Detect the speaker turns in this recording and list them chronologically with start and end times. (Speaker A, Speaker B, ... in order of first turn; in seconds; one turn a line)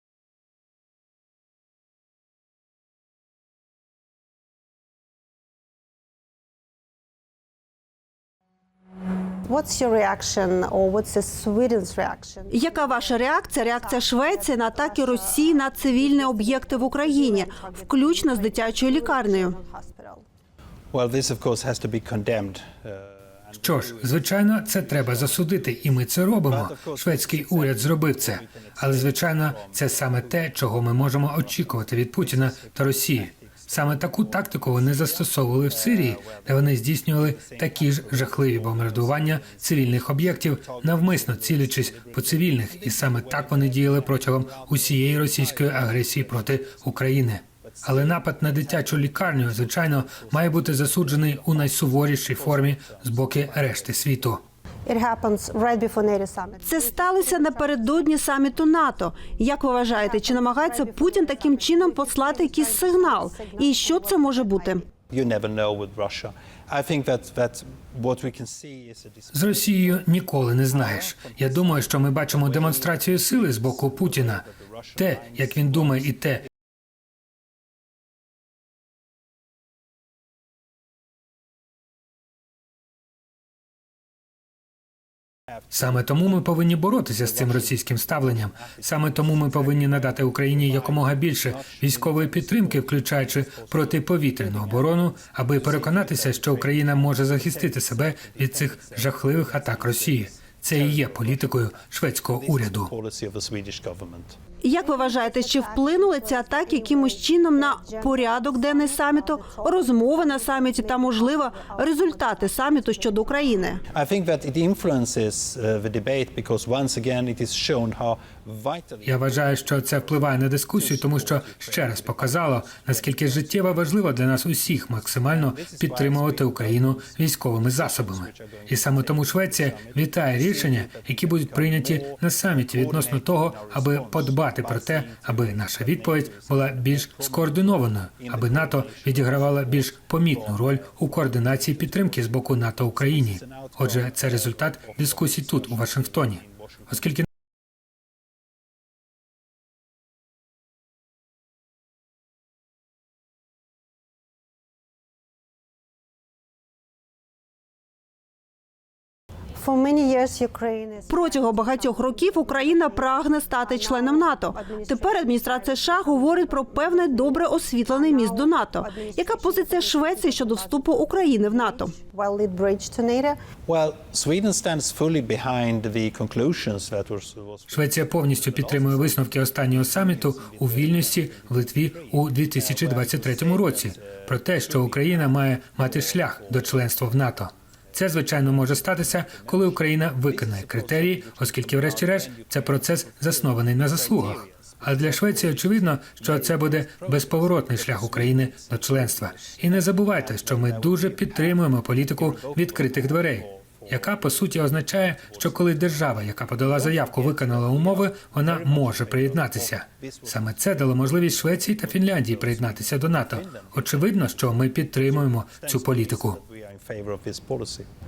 Speaker A: 9.4-20.2
Speaker B: 12.5-19.6
Speaker C: 20.9-25.8
Speaker D: 23.6-54.4
Speaker C: 26.5-46.9
Speaker C: 47.6-54.3
Speaker A: 54.9-58.2
Speaker B: 56.6-64.8
Speaker A: 59.9-64.9
Speaker C: 65.1-70.0
Speaker D: 69.3-76.5
Speaker C: 70.7-76.0
Speaker D: 85.7-102.9
Speaker C: 87.3-104.3
Speaker B: 104.6-113.8
Speaker A: 104.8-113.8
Speaker C: 113.9-123.7
Speaker D: 119.0-147.2
Speaker C: 125.3-147.0
Speaker A: 159.6-173.4
Speaker B: 161.1-171.9
Speaker C: 173.7-187.0
Speaker D: 177.7-216.4
Speaker C: 187.9-204.5
Speaker C: 205.3-217.9